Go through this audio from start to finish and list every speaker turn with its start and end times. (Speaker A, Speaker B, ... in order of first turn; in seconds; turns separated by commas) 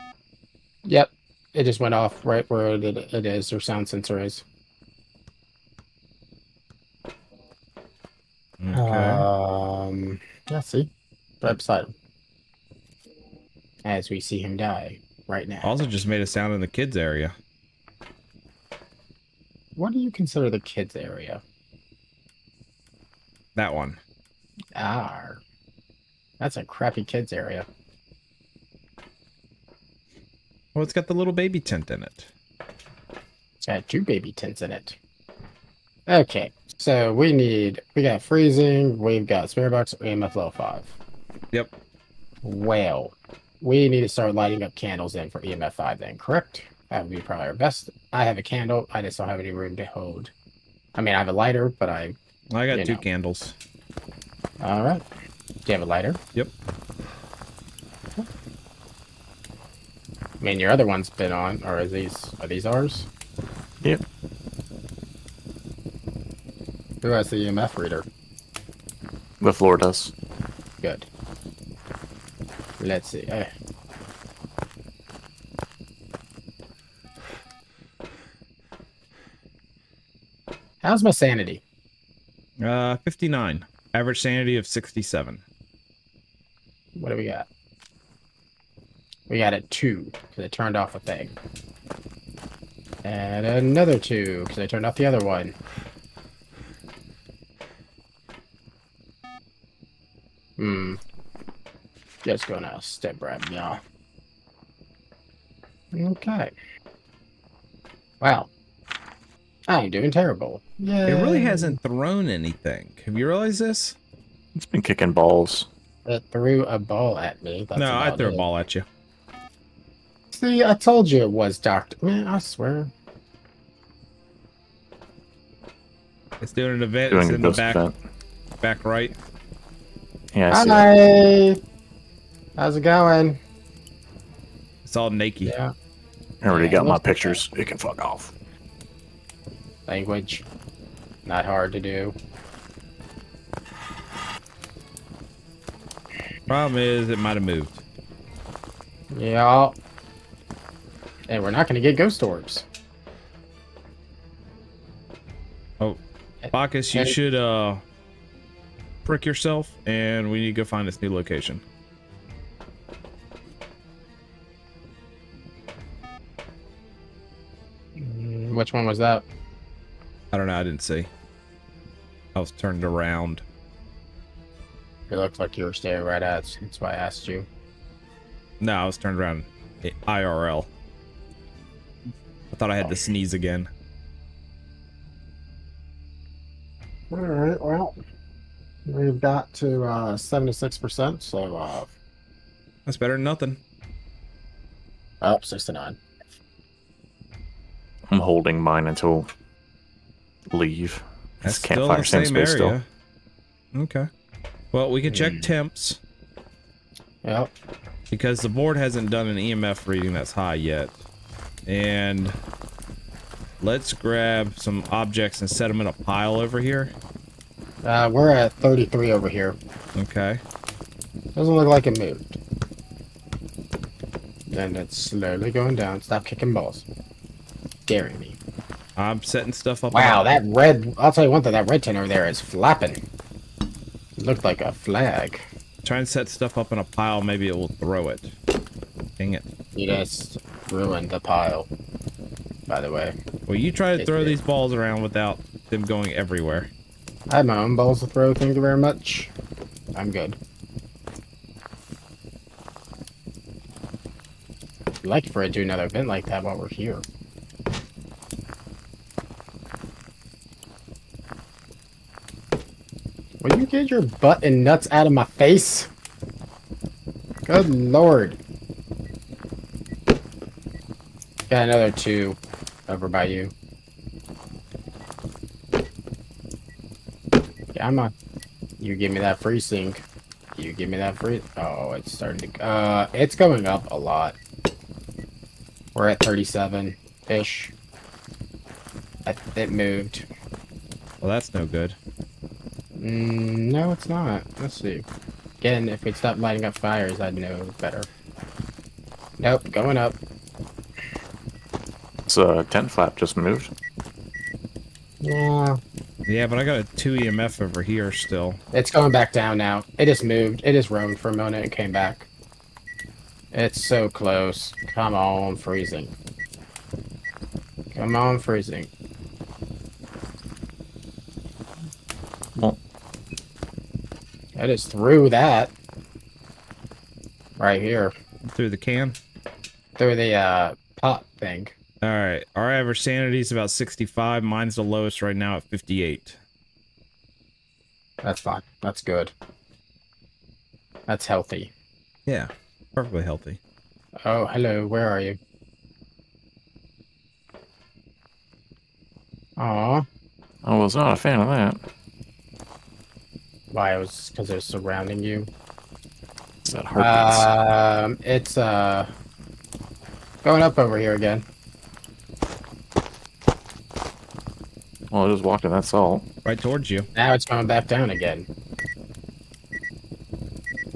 Speaker A: 0.8-4.4, Speaker B: 8.6-9.3, Speaker A: 8.7-10.9, Speaker A: 11.4-11.9, Speaker A: 13.8-15.8, Speaker B: 15.6-17.3, Speaker A: 19.8-21.4, Speaker B: 23.5-24.0, Speaker A: 24.7-25.4, Speaker A: 26.4-27.7, Speaker B: 30.7-32.3, Speaker A: 33.6-35.0, Speaker A: 36.1-41.0, Speaker A: 42.4-50.3, Speaker A: 51.0-52.1, Speaker B: 52.5-53.5, Speaker A: 52.7-53.0, Speaker A: 54.6-55.0, Speaker A: 55.6-56.2, Speaker A: 60.4-63.1, Speaker A: 67.0-68.0, Speaker C: 69.4-70.1, Speaker A: 70.8-71.1, Speaker A: 72.8-73.5, Speaker A: 80.8-81.6, Speaker B: 82.6-85.4, Speaker A: 86.9-87.5, Speaker A: 89.3-91.4, Speaker A: 93.0-95.6, Speaker A: 100.6-101.0, Speaker A: 102.2-103.8, Speaker A: 105.9-106.5, Speaker A: 108.2-108.5, Speaker A: 109.7-111.8, Speaker B: 111.0-114.0, Speaker C: 114.5-115.7, Speaker A: 116.0-118.5, Speaker B: 117.8-118.8, Speaker A: 120.3-122.9, Speaker B: 126.4-127.8, Speaker C: 127.1-127.9, Speaker B: 128.6-129.2, Speaker C: 130.3-130.8, Speaker A: 130.5-131.6, Speaker A: 132.6-133.4, Speaker B: 134.8-135.5, Speaker A: 135.4-135.7, Speaker C: 136.4-138.3, Speaker A: 136.5-137.4, Speaker A: 139.9-140.4, Speaker A: 141.2-142.2, Speaker B: 146.5-147.8, Speaker A: 149.1-149.8, Speaker A: 151.3-152.7, Speaker A: 156.4-157.2, Speaker B: 156.5-157.8, Speaker B: 159.0-161.6, Speaker A: 168.0-169.2, Speaker B: 170.3-171.1, Speaker B: 172.3-173.4, Speaker A: 175.1-177.5, Speaker B: 178.6-180.7, Speaker B: 182.5-183.7, Speaker A: 182.8-183.1, Speaker A: 187.1-188.0, Speaker A: 188.8-191.9, Speaker B: 192.8-193.6, Speaker A: 195.2-196.0, Speaker C: 198.1-199.3, Speaker C: 200.5-202.8, Speaker B: 201.4-202.9, Speaker B: 203.7-204.1, Speaker B: 204.7-206.0, Speaker A: 205.1-205.5, Speaker A: 207.2-207.5, Speaker B: 208.1-211.0, Speaker B: 211.7-212.3, Speaker B: 213.6-216.9, Speaker A: 217.8-219.6, Speaker B: 219.9-220.4, Speaker A: 221.3-222.4, Speaker A: 224.5-226.8, Speaker A: 227.9-228.4, Speaker B: 229.0-230.3, Speaker A: 229.9-233.0, Speaker A: 234.2-235.5, Speaker B: 235.8-238.3, Speaker B: 239.2-239.5, Speaker A: 239.7-241.7, Speaker A: 242.7-243.2, Speaker B: 243.5-246.7, Speaker A: 243.9-244.4, Speaker A: 247.3-249.3, Speaker A: 249.9-250.4, Speaker A: 255.0-257.0, Speaker A: 263.4-265.9, Speaker A: 267.4-268.4, Speaker A: 271.5-273.5, Speaker A: 277.7-278.1, Speaker A: 278.8-280.0, Speaker A: 280.6-284.4, Speaker A: 285.9-287.7, Speaker A: 289.2-290.3, Speaker B: 291.2-292.0, Speaker A: 293.0-295.1, Speaker A: 295.6-298.1, Speaker A: 299.4-300.2, Speaker C: 302.3-303.7, Speaker A: 305.2-305.8, Speaker B: 306.2-308.6, Speaker A: 308.7-312.3, Speaker A: 313.5-316.1, Speaker A: 317.9-318.9, Speaker A: 324.5-325.7, Speaker A: 327.6-328.1, Speaker B: 328.5-329.2, Speaker A: 330.0-331.8, Speaker B: 332.0-336.4, Speaker A: 338.2-339.3, Speaker A: 341.1-341.7, Speaker B: 342.2-343.6, Speaker A: 344.2-345.4, Speaker A: 349.6-350.0, Speaker C: 350.6-351.8, Speaker A: 353.7-355.5, Speaker C: 356.6-357.5, Speaker A: 356.9-359.1, Speaker A: 360.4-361.4, Speaker C: 365.1-366.2, Speaker B: 366.4-367.1, Speaker A: 367.1-368.5